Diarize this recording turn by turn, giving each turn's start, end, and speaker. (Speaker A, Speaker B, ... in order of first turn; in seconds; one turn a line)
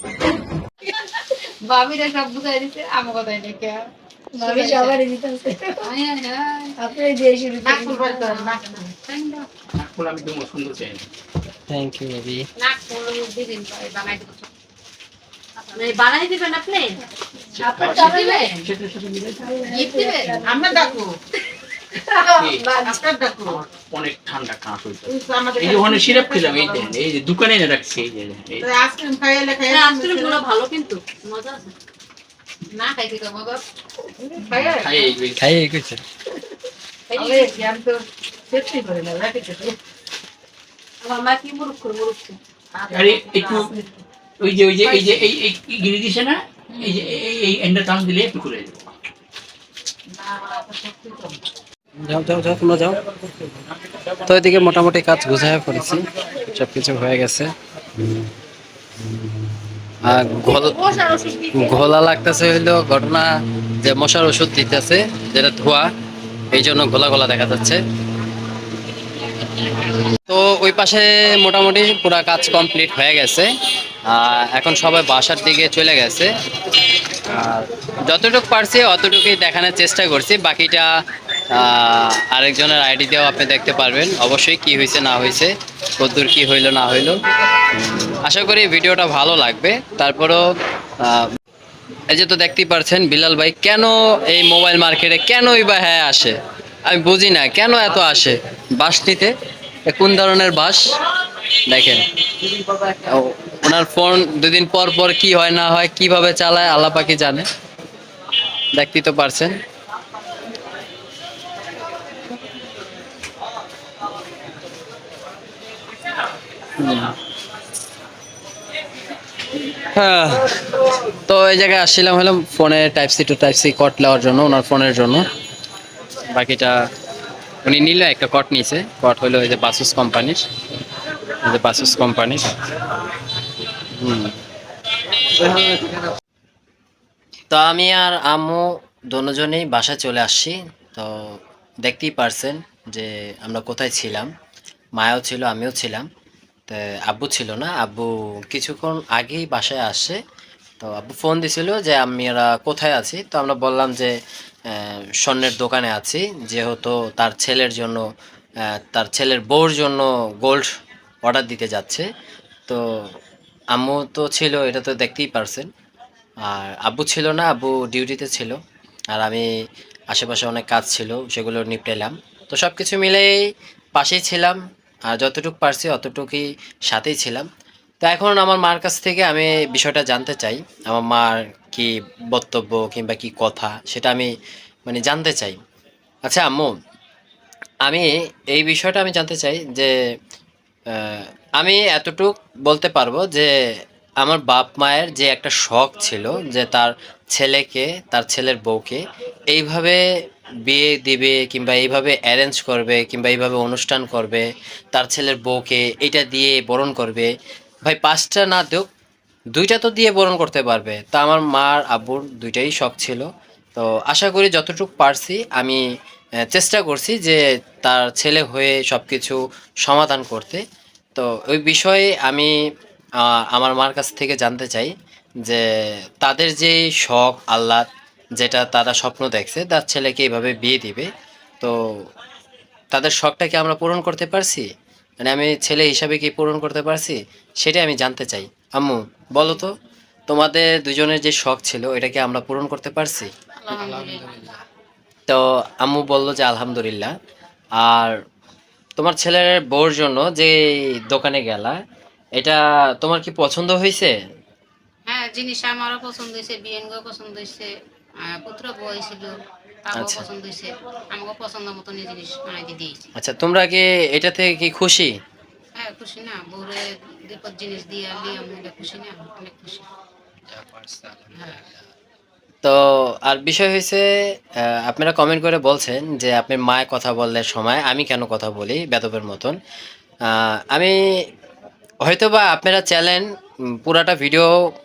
Speaker A: 0.8-5.0
Speaker B: 4.3-5.8
Speaker A: 5.8-6.8
Speaker B: 6.8-8.2
Speaker A: 7.6-9.5
Speaker C: 9.7-11.1
Speaker D: 11.7-12.5
Speaker A: 12.6-14.5
Speaker B: 16.4-16.9
Speaker C: 17.6-19.7
Speaker A: 17.6-18.6
Speaker B: 19.6-21.0
Speaker A: 19.7-20.8
Speaker E: 20.5-21.0
Speaker C: 22.3-22.8
Speaker E: 22.8-23.6
Speaker C: 23.5-28.7
Speaker E: 25.1-26.5
Speaker E: 28.7-30.4
Speaker B: 29.7-31.0
Speaker A: 32.7-33.6
Speaker C: 34.5-35.4
Speaker D: 35.4-36.0
Speaker A: 37.1-37.6
Speaker E: 37.2-37.6
Speaker E: 38.9-39.7
Speaker B: 41.2-41.6
Speaker C: 42.9-43.8
Speaker C: 44.4-48.9
Speaker D: 52.0-53.2
Speaker D: 54.2-57.5
Speaker D: 60.0-63.3
Speaker D: 63.8-65.9
Speaker D: 66.5-67.8
Speaker D: 70.2-73.5
Speaker D: 74.1-76.3
Speaker D: 77.2-80.9
Speaker D: 81.5-87.2
Speaker D: 87.7-91.3
Speaker D: 92.1-99.3
Speaker D: 99.9-100.9
Speaker D: 101.7-107.5
Speaker D: 108.8-109.6
Speaker D: 116.8-117.1
Speaker D: 119.8-125.2
Speaker D: 126.3-126.8
Speaker D: 127.6-130.4
Speaker D: 131.4-132.6
Speaker D: 133.9-134.4
Speaker D: 135.3-136.0
Speaker D: 137.5-141.2
Speaker D: 141.8-144.3
Speaker D: 145.0-146.1
Speaker D: 146.7-150.2
Speaker D: 150.8-154.1
Speaker D: 154.7-158.0
Speaker D: 158.7-160.7
Speaker D: 161.2-162.1
Speaker D: 163.7-165.7
Speaker D: 166.4-168.6
Speaker D: 169.1-169.5
Speaker D: 170.1-177.5
Speaker D: 178.0-184.3
Speaker D: 184.9-185.6
Speaker D: 186.3-186.8
Speaker D: 187.9-189.9
Speaker D: 190.9-193.5
Speaker D: 194.2-200.0
Speaker D: 200.7-207.3
Speaker D: 207.8-208.9
Speaker D: 209.5-215.8
Speaker D: 216.5-220.6
Speaker D: 221.2-222.5
Speaker D: 223.2-224.9
Speaker D: 226.2-227.9
Speaker D: 228.4-231.1
Speaker D: 232.9-234.7
Speaker D: 235.2-239.7
Speaker D: 240.3-243.3
Speaker A: 243.6-244.6
Speaker D: 245.3-247.1
Speaker D: 247.8-248.1
Speaker D: 249.0-250.5
Speaker D: 251.1-251.8
Speaker D: 252.4-254.1
Speaker A: 255.1-257.7
Speaker A: 258.2-263.1
Speaker D: 259.9-260.2
Speaker D: 263.2-265.1
Speaker A: 265.8-269.9
Speaker D: 270.5-271.3
Speaker A: 271.4-271.6
Speaker D: 272.6-279.6
Speaker D: 280.3-281.0
Speaker D: 282.1-283.2
Speaker D: 283.8-284.5